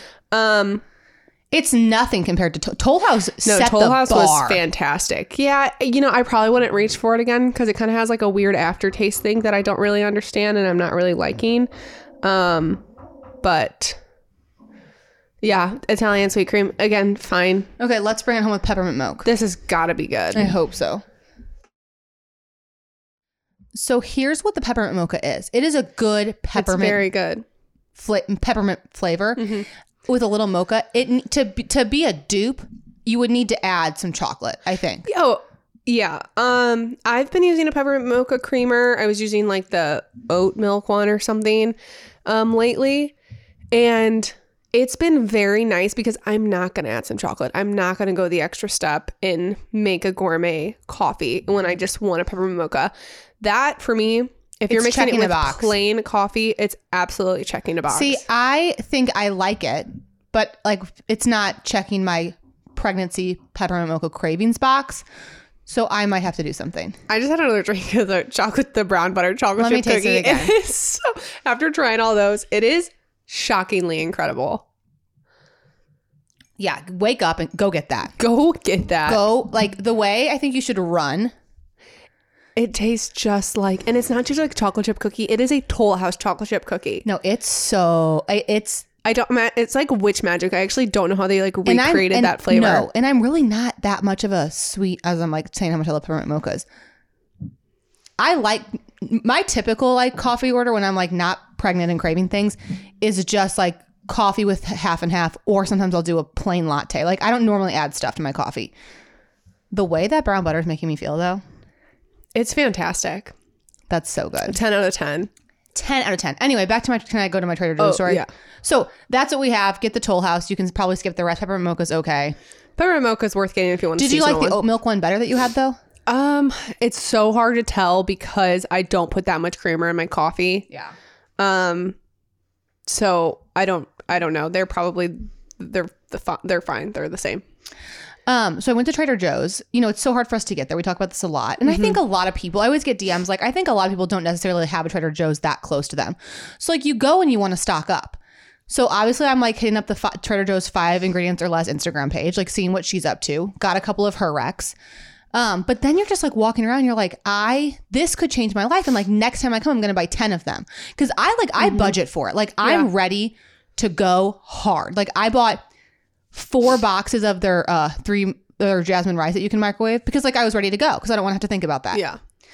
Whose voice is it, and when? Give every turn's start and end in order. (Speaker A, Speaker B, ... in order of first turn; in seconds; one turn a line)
Speaker A: 0.3-0.8
Speaker B: 1.5-4.6
Speaker A: 3.4-11.7
Speaker A: 12.2-12.8
Speaker A: 13.4-14.0
Speaker A: 15.4-17.7
Speaker B: 17.8-19.3
Speaker A: 19.2-20.5
Speaker B: 20.3-21.0
Speaker B: 23.7-27.1
Speaker A: 26.5-27.4
Speaker B: 27.9-35.1
Speaker A: 29.4-29.6
Speaker A: 35.0-43.1
Speaker A: 43.7-58.2
Speaker B: 54.7-55.7
Speaker B: 57.9-65.0
Speaker B: 65.7-67.0
Speaker A: 67.1-74.6
Speaker B: 69.6-70.5
Speaker B: 76.6-78.2
Speaker A: 78.2-79.2
Speaker B: 79.0-81.3
Speaker A: 82.5-87.0
Speaker B: 87.0-88.8
Speaker A: 89.0-92.9
Speaker B: 91.6-96.6
Speaker B: 98.2-108.7
Speaker B: 109.7-111.4
Speaker A: 112.3-113.3
Speaker B: 113.9-114.6
Speaker A: 114.4-115.3
Speaker B: 115.7-122.3
Speaker A: 117.8-118.3
Speaker A: 122.8-124.6
Speaker B: 124.0-125.8
Speaker A: 126.1-130.7
Speaker A: 131.4-132.0
Speaker A: 132.8-137.4
Speaker B: 138.2-154.7
Speaker A: 141.7-141.9
Speaker B: 155.3-165.6
Speaker A: 161.6-161.9
Speaker B: 166.3-172.0
Speaker A: 171.9-172.2